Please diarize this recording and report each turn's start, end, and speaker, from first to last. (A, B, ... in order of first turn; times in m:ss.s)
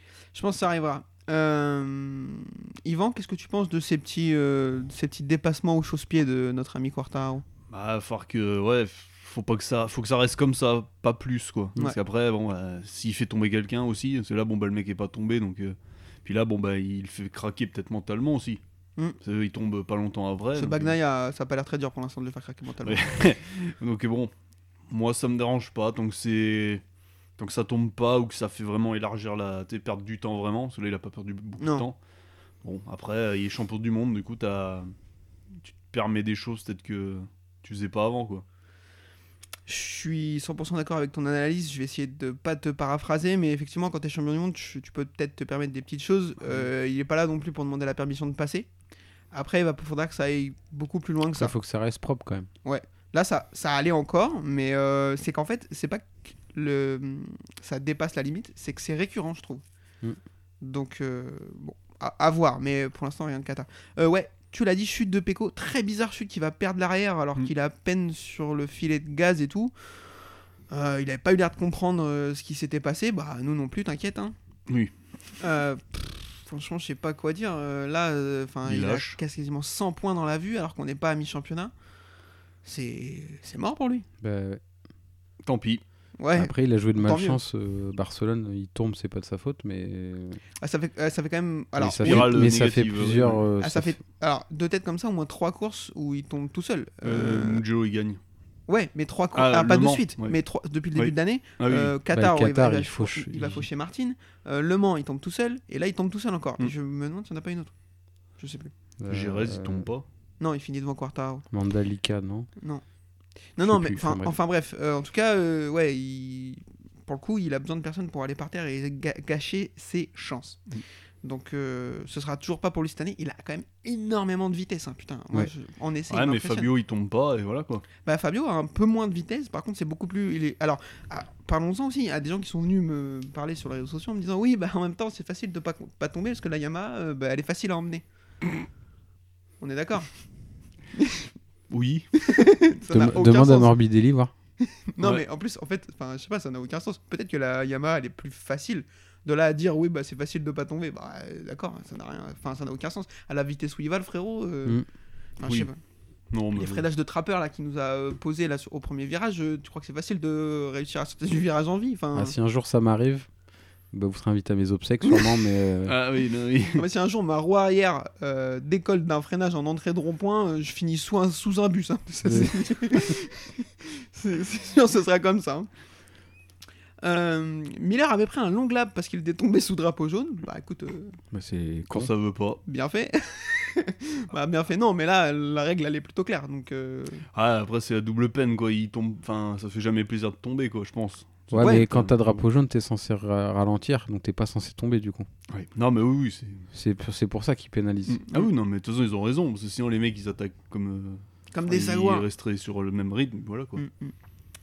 0:00.3-0:07.4 A
0:07.7-0:18.6 B
0:19.2-0:20.9 B
0:20.6-0:23.1 A
0:22.8-0:24.3 B
0:24.9-0:26.8 B
0:27.4-0:32.0 B
0:31.6-0:31.8 A
0:32.6-0:34.9 B
0:35.6-0:38.4 B
0:39.7-0:48.7 A
0:49.3-0:51.5 A
0:51.4-0:52.5 C
0:52.6-0:59.6 A
1:00.6-1:09.7 A
1:10.7-1:14.4 A
1:14.7-1:14.9 B
1:15.4-1:21.7 A
1:18.6-1:19.2 B
1:22.6-1:24.1 A
1:24.2-1:24.6 C
1:25.4-1:25.8 B
1:26.2-1:27.4 A
1:26.4-1:30.4 C
1:30.6-1:32.5 A
1:31.8-1:34.0 C
1:32.0-1:33.4 B
1:33.6-1:37.6 A
1:37.0-1:38.2 B
1:38.7-1:47.7 A
1:39.3-1:40.4 B
1:41.0-1:41.9 B
1:42.1-1:43.6 C
1:48.4-1:48.7 A
1:49.0-1:49.9 C
1:49.1-1:50.0 B
1:50.4-1:51.5 A
1:51.5-1:52.5 C
1:53.6-2:00.6 A
1:53.6-1:54.4 C
2:01.2-2:06.7 A
2:06.1-2:07.9 B
2:08.0-2:18.0 A
2:19.6-2:20.1 A
2:21.0-2:21.3 A
2:21.7-2:22.1 B
2:22.2-2:23.7 A
2:22.9-2:24.3 C
2:24.9-2:34.8 A
2:35.4-2:35.8 A
2:35.4-2:35.7 B
2:36.3-2:36.8 B
2:36.5-2:42.4 A
2:42.2-2:43.3 C
2:43.9-2:46.0 C
2:45.8-2:46.9 B
2:46.7-2:55.7 A
2:52.2-2:52.6 C
2:57.0-3:01.2 A
3:01.3-3:02.1 C
3:01.9-3:02.6 B
3:02.7-3:07.2 A
3:07.3-3:12.4 B
3:11.5-3:15.3 C
3:11.6-3:11.9 A
3:15.5-3:16.7 B
3:16.7-3:18.2 C
3:18.1-3:23.8 B
3:21.5-3:22.3 A
3:23.8-3:24.1 A